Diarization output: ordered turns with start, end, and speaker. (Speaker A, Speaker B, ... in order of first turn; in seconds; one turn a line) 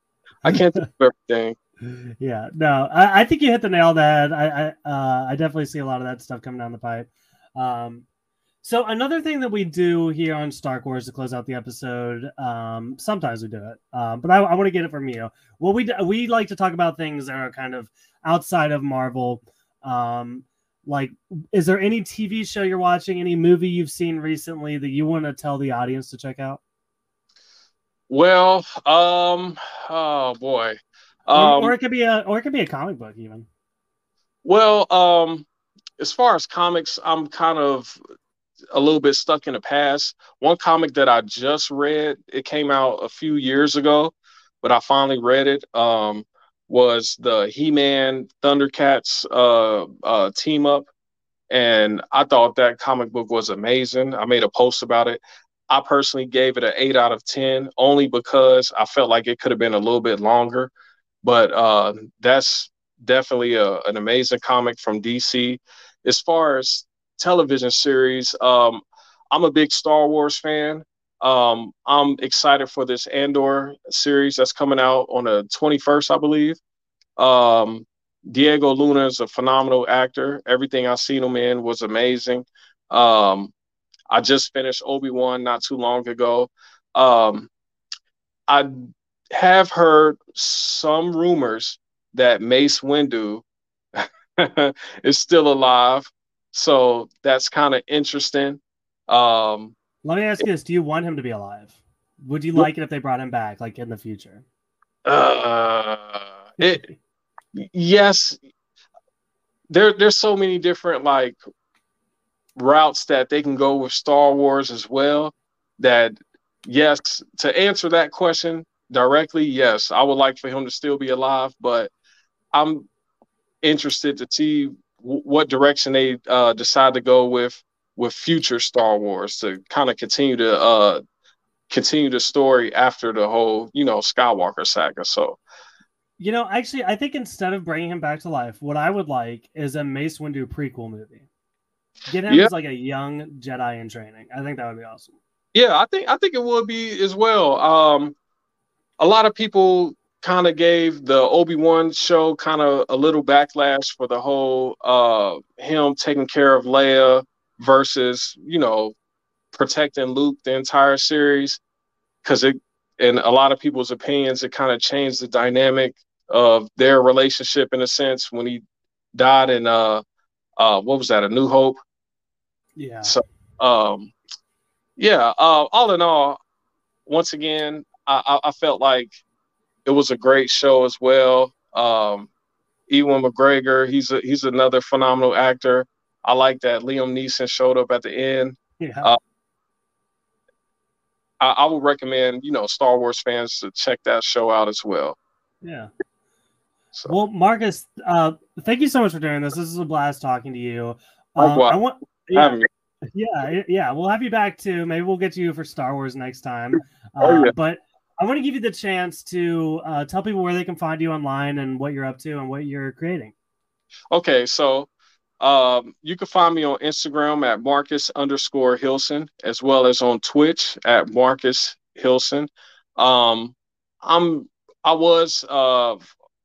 Speaker A: 0.4-1.6
Speaker B: 1.8-8.1
Speaker B: 8.6-26.6
Speaker A: 28.1-31.7
Speaker B: 31.3-33.5
Speaker A: 34.4-35.5
Speaker A: 36.0-38.0
Speaker A: 38.7-50.9
Speaker A: 51.5-60.7
Speaker A: 61.2-76.6
Speaker A: 77.2-83.5
Speaker A: 84.1-87.5
Speaker A: 88.5-93.4
Speaker A: 94.0-99.7
Speaker B: 100.0-104.5
Speaker A: 105.0-106.8
Speaker B: 106.6-107.0
Speaker A: 107.5-108.4
Speaker A: 109.7-111.4
Speaker A: 112.5-121.9
Speaker A: 122.5-122.9
Speaker A: 123.6-131.0
Speaker A: 131.7-135.4
Speaker B: 136.2-141.3
Speaker B: 142.1-145.2
Speaker A: 145.5-148.1
Speaker A: 149.0-158.9
Speaker A: 159.5-161.6
Speaker A: 162.2-168.6
Speaker A: 169.1-170.0
Speaker A: 170.6-171.8
Speaker B: 172.8-173.2
Speaker A: 173.0-174.1
Speaker A: 175.0-176.4
Speaker A: 177.1-179.2
Speaker A: 179.9-182.3
Speaker A: 182.9-189.2
Speaker B: 188.8-189.1
Speaker A: 191.4-195.2
Speaker B: 195.6-195.9
Speaker B: 197.1-202.6
Speaker A: 201.4-201.8
Speaker A: 202.3-202.7
Speaker B: 203.1-213.3
Speaker A: 207.2-207.5
Speaker A: 214.1-214.9
Speaker A: 215.4-226.1